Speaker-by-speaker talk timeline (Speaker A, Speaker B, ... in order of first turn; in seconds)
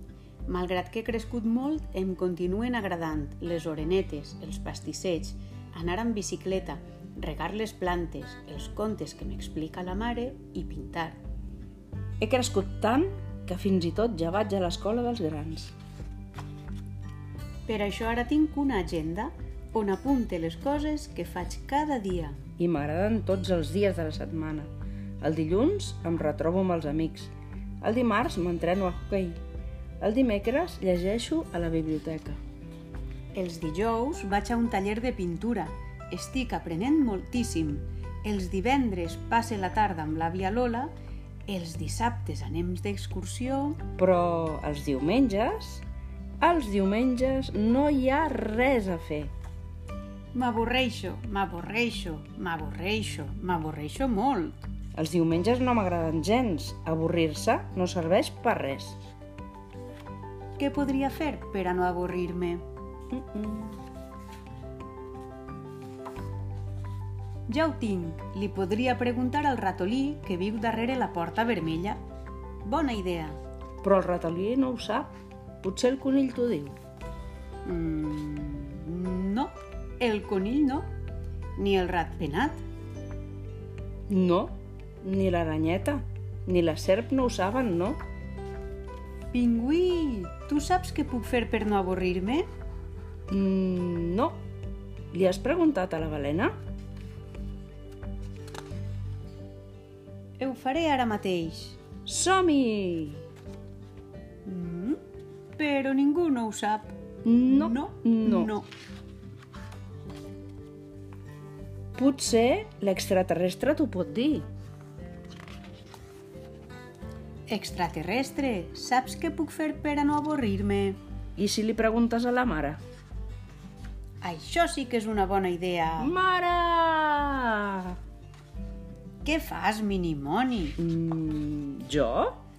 Speaker A: 0.5-11.2, 17.7-22.4, 33.4-40.9, 41.5-43.8, 50.3-54.7, 60.6-62.6, 67.5-72.0, 72.6-73.4, 77.7-80.9, 81.6-82.6, 89.3-92.5, 100.4-101.8, 104.5-105.0, 105.6-107.0, 107.5-108.7, 117.5-121.0, 124.2-126.1, 129.2-130.8
Speaker B: 12.2-15.7, 22.6-24.7, 25.2-29.4, 30.0-32.4, 44.0-45.8, 46.4-49.3, 55.0-59.0, 63.1-63.8, 73.8-75.1, 75.6-76.8, 84.1-88.0, 93.3-94.4, 95.1-96.5, 102.1-103.2, 107.2-108.5, 112.0-114.5, 121.4-122.8, 126.0-128.0, 130.8-132.4